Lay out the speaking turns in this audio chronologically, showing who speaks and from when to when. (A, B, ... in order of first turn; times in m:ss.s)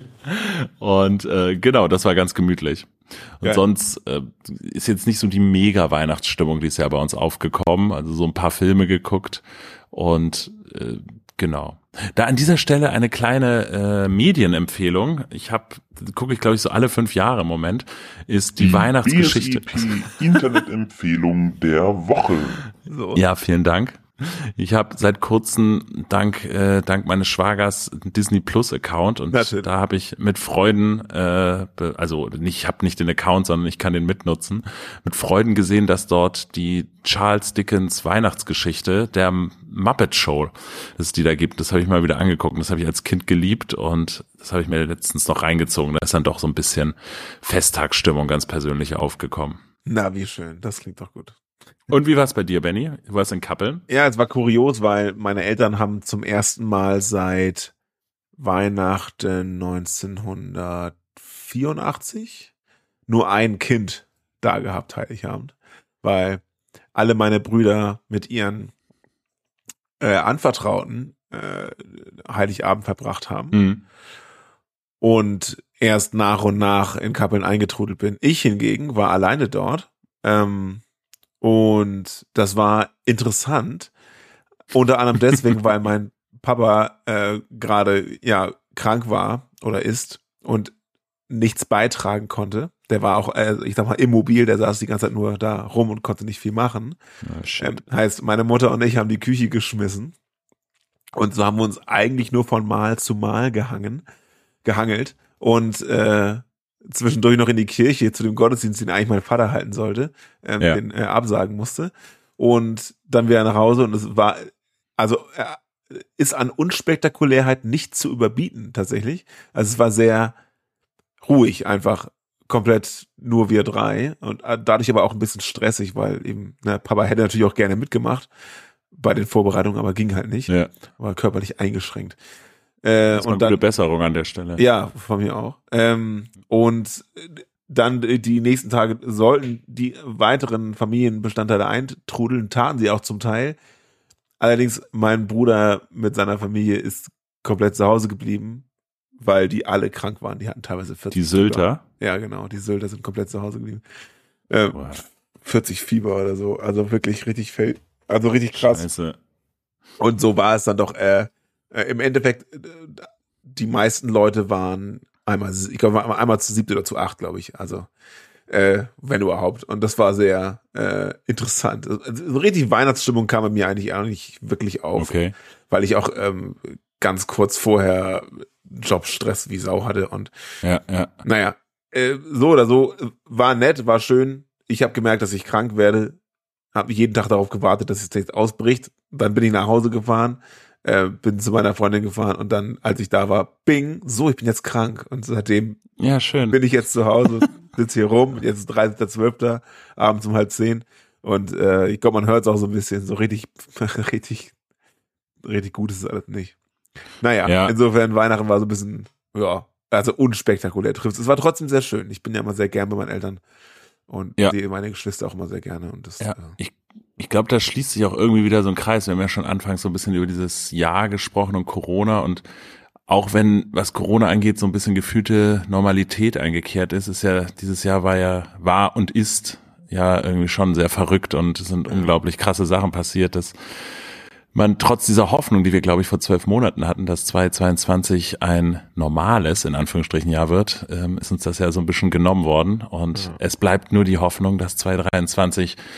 0:00.2-0:20.1 A
0:18.6-0:22.6 B
0:22.8-0:23.2 C
0:23.1-0:49.6 A
0:29.3-0:29.7 C
0:49.8-0:51.4 C
0:51.9-0:53.8 A
0:53.9-0:57.7 C
0:58.4-1:02.5 C
1:03.1-1:06.4 C
1:06.9-1:08.7 C
1:10.0-1:13.6 C
1:13.5-1:13.8 A
1:15.0-1:20.8 C
1:21.4-1:23.9 C
1:24.7-1:30.7 C
1:31.3-1:37.0 C
1:37.2-1:37.8 A
1:37.6-1:40.1 C
1:41.1-1:44.0 C
1:44.6-2:00.4 C
2:01.2-2:08.3 C
2:08.9-2:12.2 C
2:12.8-2:13.6 C
2:13.1-2:14.6 A
2:14.6-2:23.6 C
2:24.4-2:28.6 C
2:29.2-2:33.8 C
2:31.1-2:31.8 A
2:34.5-2:38.8 C
2:34.7-2:35.0 A
2:38.5-2:39.2 A
2:40.0-2:47.9 C
2:48.5-2:55.2 C
2:55.0-2:55.3 A
2:55.7-3:00.3 C
3:00.6-3:01.1 A
3:01.2-3:06.2 C
3:06.7-3:15.8 C
3:16.0-3:16.6 A
3:16.5-3:24.5 C
3:25.4-3:26.6 C
3:27.2-3:33.4 C
3:27.4-3:27.7 A
3:34.1-3:36.5 C
3:36.2-3:42.4 A
3:43.1-4:05.8 A